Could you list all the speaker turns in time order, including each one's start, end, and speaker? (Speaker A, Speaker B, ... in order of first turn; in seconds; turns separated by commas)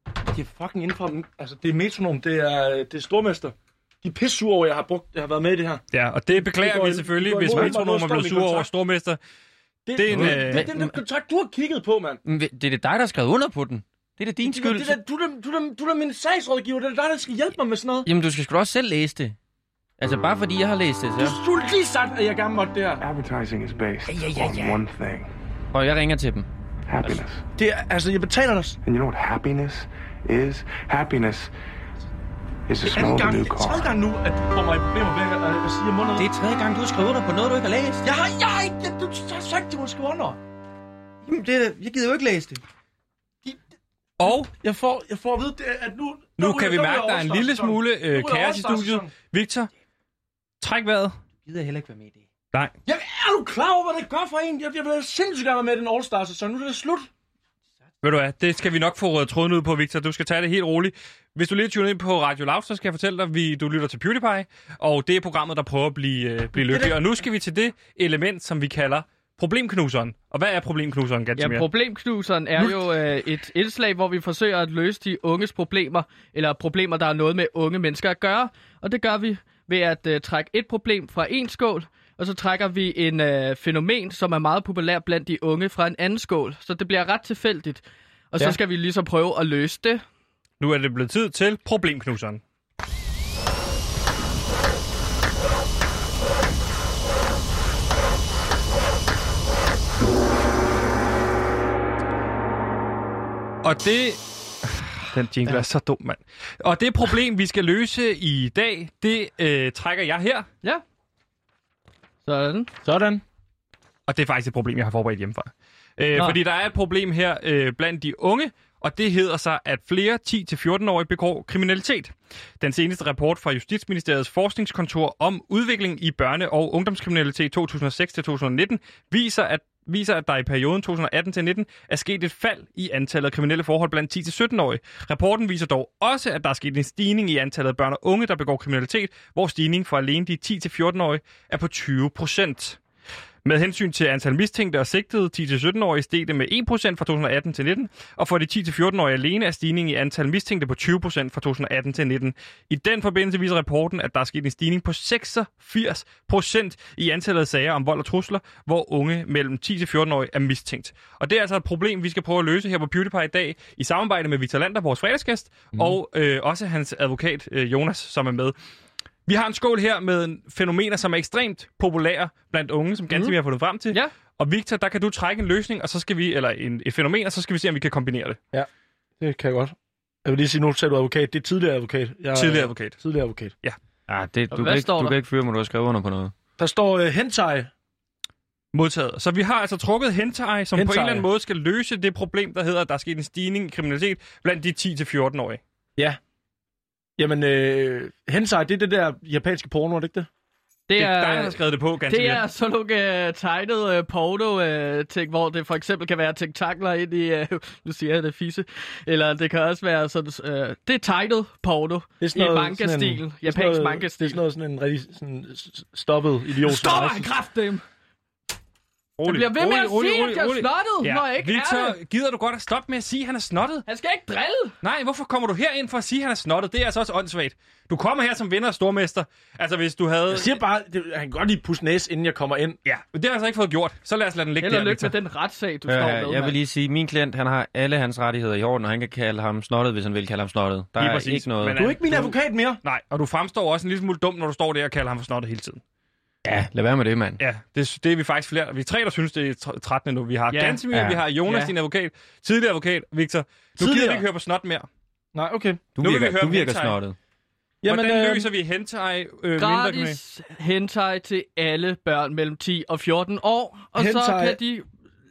Speaker A: 0.3-5.8, Speaker B: 5.9-9.2, Speaker A: 6.3-8.7, Speaker C: 7.5-7.8, Speaker A: 9.9-12.2, Speaker B: 10.0-10.7, Speaker C: 10.1-11.0, Speaker C: 12.2-15.0, Speaker A: 14.4-18.1, Speaker C: 18.1-19.4, Speaker C: 20.0-21.4, Speaker A: 21.2-23.0, Speaker D: 23.0-25.3, Speaker C: 24.1-24.8, Speaker C: 25.7-26.5, Speaker D: 26.9-27.4, Speaker A: 27.6-28.8, Speaker D: 28.9-31.5, Speaker D: 32.7-33.9, Speaker A: 32.9-36.3, Speaker C: 36.2-38.1, Speaker A: 38.0-40.4, Speaker C: 41.2-42.6, Speaker B: 44.2-44.5, Speaker A: 44.6-49.1, Speaker B: 46.4-49.7, Speaker B: 50.6-51.2, Speaker C: 51.5-52.2, Speaker A: 52.9-57.1, Speaker B: 58.0-71.7, Speaker A: 66.6-67.0, Speaker E: 71.4-90.0, Speaker B: 90.6-92.4, Speaker B: 103.6-110.5, Speaker E: 112.2-112.7, Speaker A: 112.8-113.2, Speaker B: 114.1-142.8, Speaker B: 143.4-168.6, Speaker B: 169.3-178.4, Speaker A: 179.2-183.5, Speaker B: 182.3-183.0, Speaker C: 184.1-186.3, Speaker E: 184.5-185.2, Speaker A: 186.6-187.7, Speaker B: 188.7-195.6, Speaker A: 190.7-191.3, Speaker A: 197.2-200.3, Speaker E: 200.9-214.4, Speaker B: 201.0-202.4, Speaker A: 212.2-217.3, Speaker E: 216.7-217.8, Speaker B: 219.2-223.8, Speaker E: 219.2-222.0, Speaker E: 223.9-224.8, Speaker B: 224.8-230.6, Speaker A: 230.3-232.8, Speaker B: 232.8-235.1, Speaker E: 234.6-236.6, Speaker C: 235.9-241.8, Speaker B: 241.0-245.8, Speaker A: 241.7-242.8, Speaker C: 246.4-247.4, Speaker B: 247.4-254.9, Speaker E: 250.5-250.8, Speaker C: 250.9-251.2, Speaker A: 253.8-254.2, Speaker A: 255.3-255.8, Speaker C: 256.0-257.2, Speaker B: 256.0-257.0, Speaker A: 257.8-258.5, Speaker B: 257.9-260.2, Speaker E: 259.6-264.9, Speaker A: 264.0-264.6